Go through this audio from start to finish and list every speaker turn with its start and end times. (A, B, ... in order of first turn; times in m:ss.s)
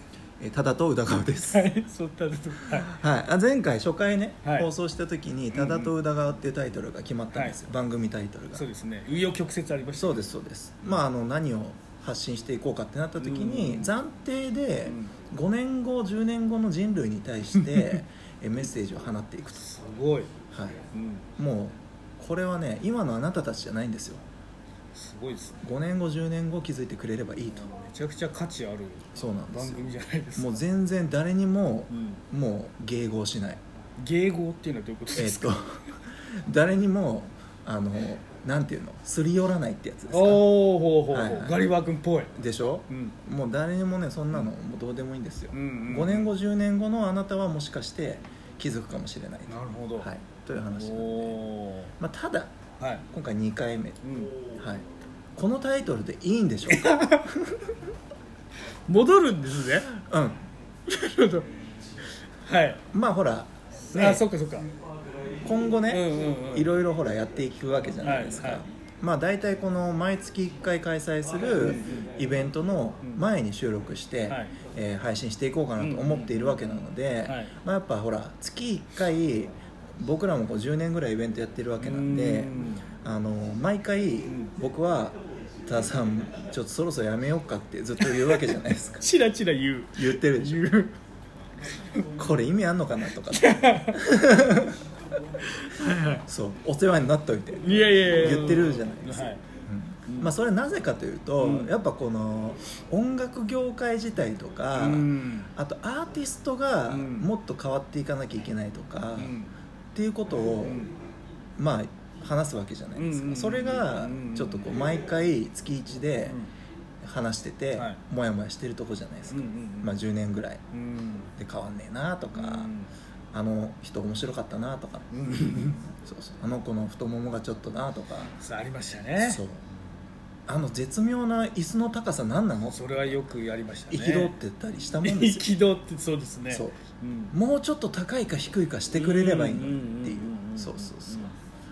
0:00.4-0:01.7 A
0:01.5-0:03.0 B
0:02.7-0:08.6 A
0:04.4-0:04.7 B
0:05.5-0:05.9 B
0:07.3-0:07.7 B
0:08.5-0:10.3 B
0:10.0-0:19.7 A
0:13.2-0:13.9 B
0:14.9-0:15.1 B
0:17.6-0:17.9 B
0:19.6-0:20.3 B
0:20.5-0:20.8 A
0:20.9-0:21.2 B
0:21.4-0:24.2 A
0:24.9-0:25.6 B
0:25.6-0:27.8 A
0:27.7-0:30.6 B
0:29.2-0:33.6 A
0:31.9-0:32.2 B
0:34.0-0:35.6 B
0:35.2-0:40.5 A
0:40.1-0:42.3 B
0:41.1-0:41.7 A
0:42.4-0:51.4 A
0:42.9-0:43.2 B
0:45.5-0:46.3 B
0:49.5-0:50.1 B
0:50.7-0:51.9 B
0:52.0-0:52.5 A
0:52.8-0:53.0 B
0:53.1-0:54.0 A
0:54.0-0:54.3 B
0:54.6-0:54.8 A
0:55.4-0:57.6 A
0:56.7-0:57.3 B
0:58.9-0:59.9 B
0:59.9-1:00.4 A
1:00.9-1:01.5 B
1:02.4-1:02.8 B
1:02.9-1:04.3 A
1:03.9-1:04.7 B
1:05.4-1:29.0 A
1:05.9-1:06.7 B
1:08.0-1:08.6 B
1:11.6-1:12.1 B
1:14.3-1:14.5 B
1:15.8-1:16.6 B
1:17.2-1:17.5 B
1:21.8-1:22.9 B
1:24.3-1:24.5 B
1:28.0-1:31.0 B
1:30.0-1:30.6 A
1:32.2-1:34.8 A
1:33.3-1:34.0 B
1:35.5-1:36.2 B
1:36.3-1:49.4 A
1:37.6-1:39.4 B
1:40.1-1:40.3 B
1:41.4-1:41.7 B
1:44.8-1:45.5 B
1:46.9-1:47.3 B
1:49.2-1:49.5 B
1:50.0-1:50.9 A
1:50.6-1:51.0 B
1:51.6-1:56.4 A
1:53.0-1:54.7 B
1:57.0-2:00.6 A
1:57.8-1:58.0 B
1:59.3-1:59.9 B
2:00.7-2:01.3 B
2:01.4-2:02.7 A
2:02.3-2:02.9 B
2:03.3-2:08.4 A
2:05.1-2:05.8 B
2:08.4-2:09.4 B
2:09.2-2:09.6 A
2:10.5-2:13.2 A
2:12.7-2:14.3 B
2:13.9-2:15.5 A
2:15.0-2:17.3 B
2:16.5-2:16.8 A
2:17.3-2:21.3 A
2:18.9-2:21.4 B